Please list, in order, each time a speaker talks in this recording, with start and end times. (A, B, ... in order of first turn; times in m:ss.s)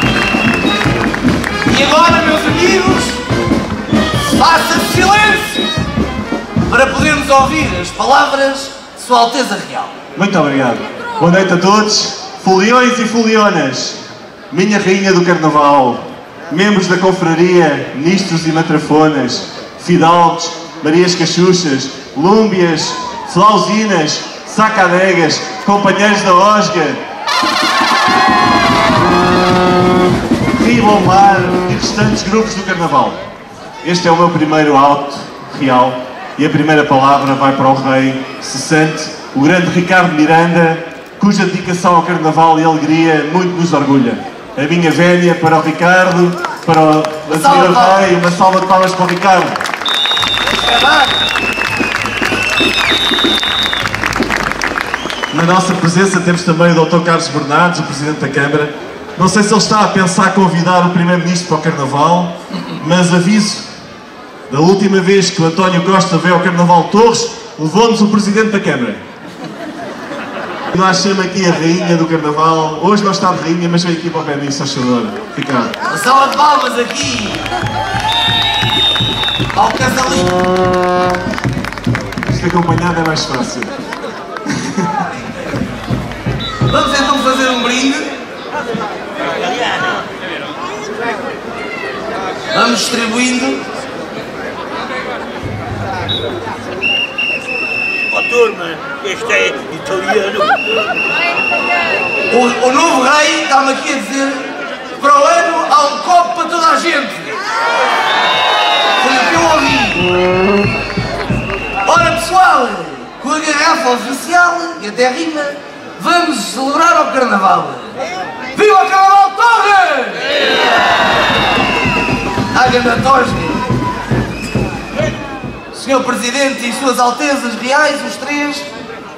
0:01.6-0:03.2 A
0:04.2-0:05.6 A
0:06.6-0:09.9 A
0:10.1-0:27.0 B
0:30.6-0:33.2 B
0:33.8-0:49.6 B
0:47.3-0:48.2 A
0:50.5-0:51.2 A
0:55.3-1:03.7 B
1:04.5-1:09.0 B
1:10.7-1:15.7 B
1:15.9-1:17.5 A
1:19.5-1:20.4 A
1:22.2-1:23.7 B
1:24.5-1:25.0 B
1:26.7-1:28.1 A
1:29.4-1:30.0 C
1:32.5-1:33.6 A
1:38.1-1:40.6 C
1:42.3-1:47.4 A
1:49.0-1:50.1 A
1:51.8-1:58.0 A
1:58.5-2:00.6 A
2:02.5-2:03.7 A
2:05.7-2:08.7 A